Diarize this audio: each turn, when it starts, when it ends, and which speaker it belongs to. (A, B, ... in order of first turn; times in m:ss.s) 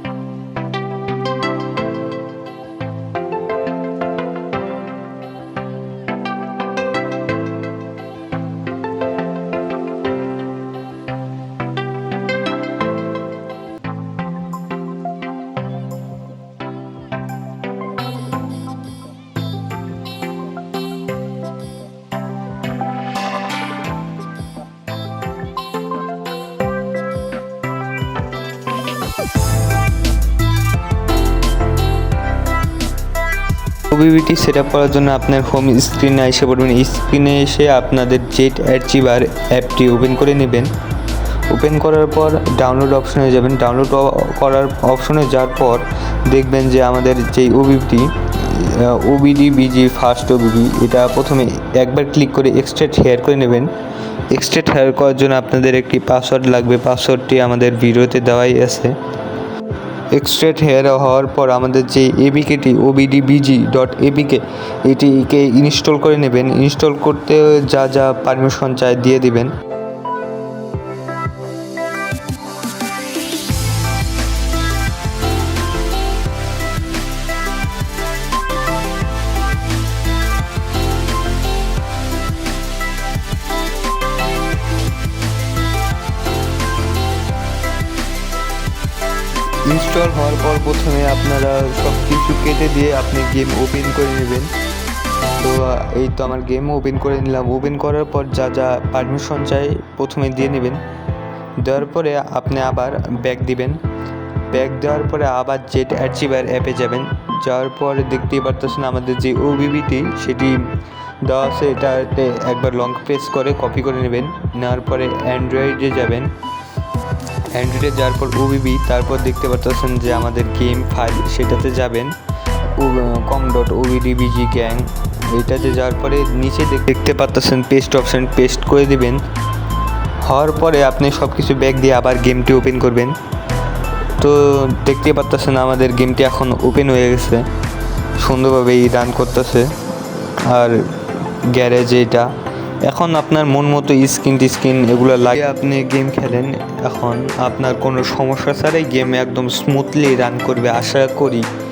0:33.9-0:40.7 A
0:41.5-0:53.7 A
0:54.3-0:59.0 A
1:00.1-1:09.5 A
1:29.6-1:34.5 A
1:35.4-1:40.8 A
1:41.6-1:43.8 A
1:44.5-1:56.3 A
1:57.5-2:09.2 A
2:10.2-2:13.2 A
2:14.2-2:17.5 A
2:18.2-2:19.7 A
2:20.4-2:22.3 A
2:22.8-2:31.5 A